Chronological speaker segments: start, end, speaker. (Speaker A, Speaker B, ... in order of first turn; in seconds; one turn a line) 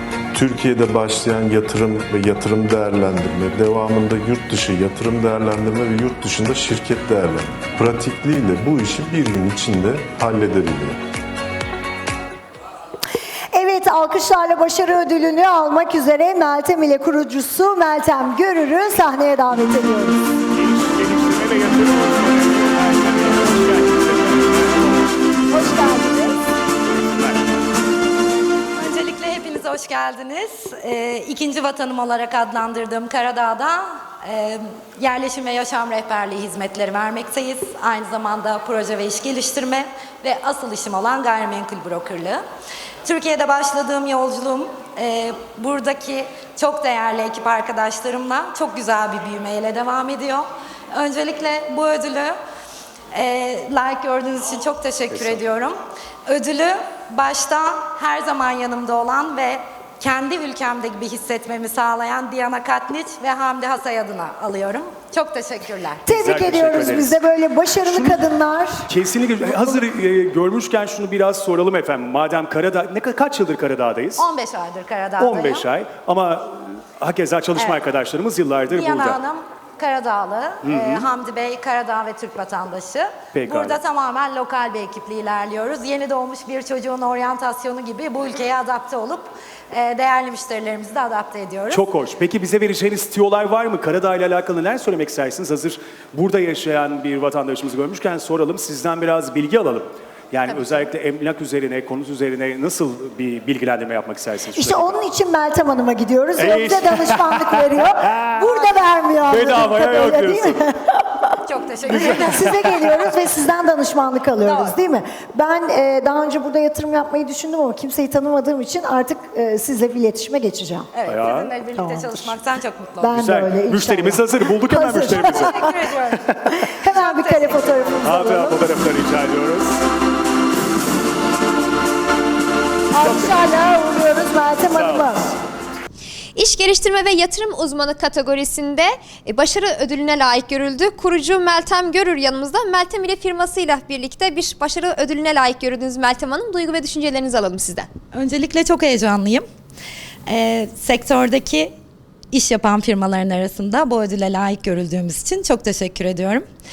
Speaker A: 0.3-11.0
Speaker B: 13.5-20.2
Speaker C: 20.5-25.2
Speaker B: 25.5-26.4
Speaker C: 26.8-27.5
Speaker D: 28.8-42.4
Speaker D: 43.0-52.4
Speaker D: 53.1-66.0
Speaker B: 66.1-68.9
Speaker C: 66.1-67.2
Speaker C: 67.8-68.3
Speaker C: 68.9-74.2
Speaker D: 74.2-75.7
Speaker C: 75.2-79.2
Speaker D: 78.7-91.8
Speaker C: 80.6-81.0
Speaker C: 83.3-83.8
Speaker C: 91.7-105.0
Speaker B: 104.6-111.0
Speaker C: 106.4-108.7
Speaker C: 109.3-110.6
Speaker D: 111.4-112.5
Speaker B: 111.9-120.9
Speaker C: 112.0-112.8
Speaker D: 114.4-114.8
Speaker D: 120.9-123.2
Speaker C: 121.1-121.6
Speaker B: 121.7-122.4
Speaker B: 123.0-126.0
Speaker C: 123.1-125.7
Speaker D: 125.1-126.2
Speaker C: 126.3-126.6
Speaker B: 126.6-128.6
Speaker D: 126.8-128.3
Speaker C: 128.0-129.8
Speaker B: 132.9-135.3
Speaker C: 133.0-133.5
Speaker C: 134.7-135.2
Speaker E: 136.4-147.9
Speaker D: 148.1-149.4
Speaker D: 150.3-151.7
Speaker D: 152.3-156.5